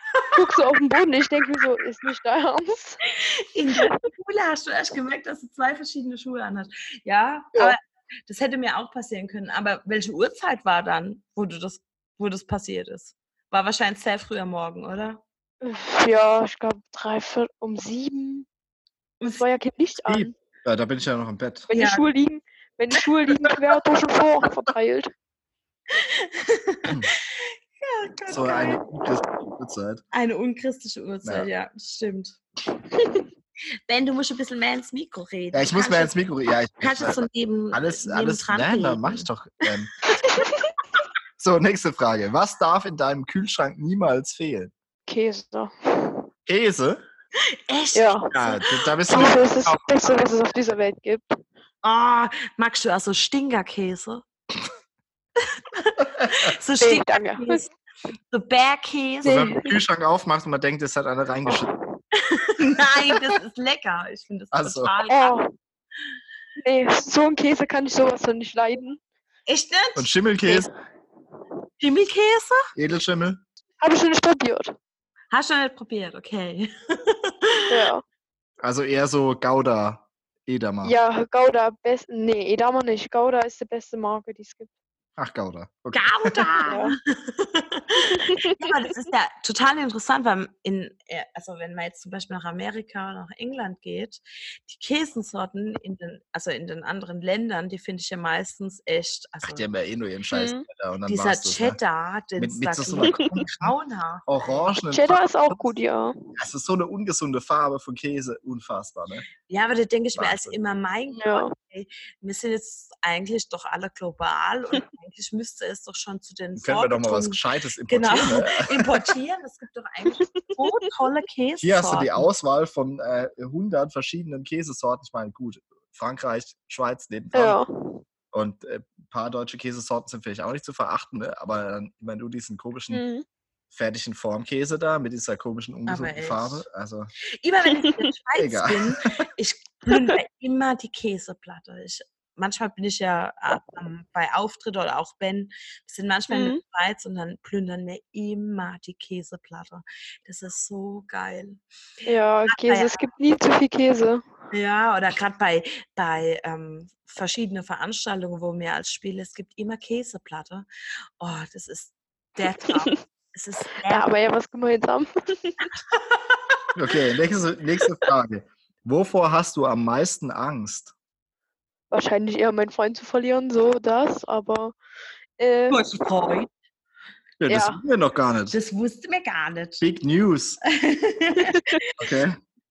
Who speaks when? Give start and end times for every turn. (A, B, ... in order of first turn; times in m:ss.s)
0:00.3-0:03.0 A
0:03.2-0:15.2 B
0:15.6-0:18.4 A
0:19.2-0:19.4 B
0:19.2-0:20.3 A
0:20.1-0:21.7 C
0:21.7-0:25.1 A
0:21.7-0:22.0 B
0:25.9-0:28.9 B
0:28.3-0:30.0 C
0:30.1-0:32.4 B
0:33.0-0:33.2 A
0:33.9-0:36.2 B
0:35.5-0:39.9 C
0:36.8-0:39.3 B
0:40.3-0:40.7 A
0:41.4-0:44.7 C
0:45.1-0:46.2 A
0:46.4-0:47.0 C
0:47.7-0:49.4 B
0:47.9-0:48.6 A
0:48.3-0:49.8 C
0:49.1-0:51.4 A
0:51.8-0:54.2 B
0:55.4-0:57.7 B
0:56.8-0:57.6 A
0:58.3-0:59.6 B
0:59.2-0:59.8 A
0:59.2-1:01.7 C
1:01.5-1:01.7 A
1:02.2-1:05.4 B
1:04.5-1:04.9 C
1:05.1-1:05.5 A
1:06.6-1:09.0 A
1:09.5-1:10.7 B
1:10.0-1:10.7 C
1:11.8-1:12.6 B
1:12.8-1:13.4 C
1:13.8-1:14.7 A
1:15.3-1:17.8 B
1:17.7-1:18.0 A
1:18.6-1:20.9 C
1:20.8-1:24.7 A
1:25.2-1:26.7 C
1:25.9-1:39.7 B
1:26.6-1:26.9 A
1:28.0-1:28.7 A
1:39.4-1:41.8 C
1:40.3-1:40.6 A
1:41.1-1:44.7 B
1:42.4-1:43.7 C
1:44.3-1:45.7 C
1:44.9-1:46.4 A
1:46.4-1:49.3 C
1:49.5-2:02.3 B
1:50.2-1:50.6 C
1:51.1-1:51.5 A
1:56.6-1:59.1 C
2:00.2-2:00.9 A
2:01.6-2:07.6 C
2:07.3-2:08.0 A
2:08.3-2:13.0 C
2:12.9-2:13.2 A
2:13.7-2:17.1 C
2:15.9-2:16.6 B
2:17.4-2:31.6 B
2:17.8-2:18.1 A
2:18.4-2:19.0 C
2:26.3-2:26.6 A
2:32.0-2:34.3 A
2:32.5-2:33.1 B
2:34.5-2:40.7 B
2:41.2-2:44.1 B
2:43.9-2:45.6 A
2:45.9-2:46.2 B
2:46.8-2:50.9 C
2:51.9-2:54.8 A
2:55.4-2:55.8 A
2:55.7-2:56.5 B
2:57.4-2:58.6 C
2:57.5-2:57.8 A
2:58.5-2:59.8 B
2:59.8-3:00.6 C
3:00.7-3:01.7 B
3:01.4-3:01.8 A
3:02.0-3:02.4 C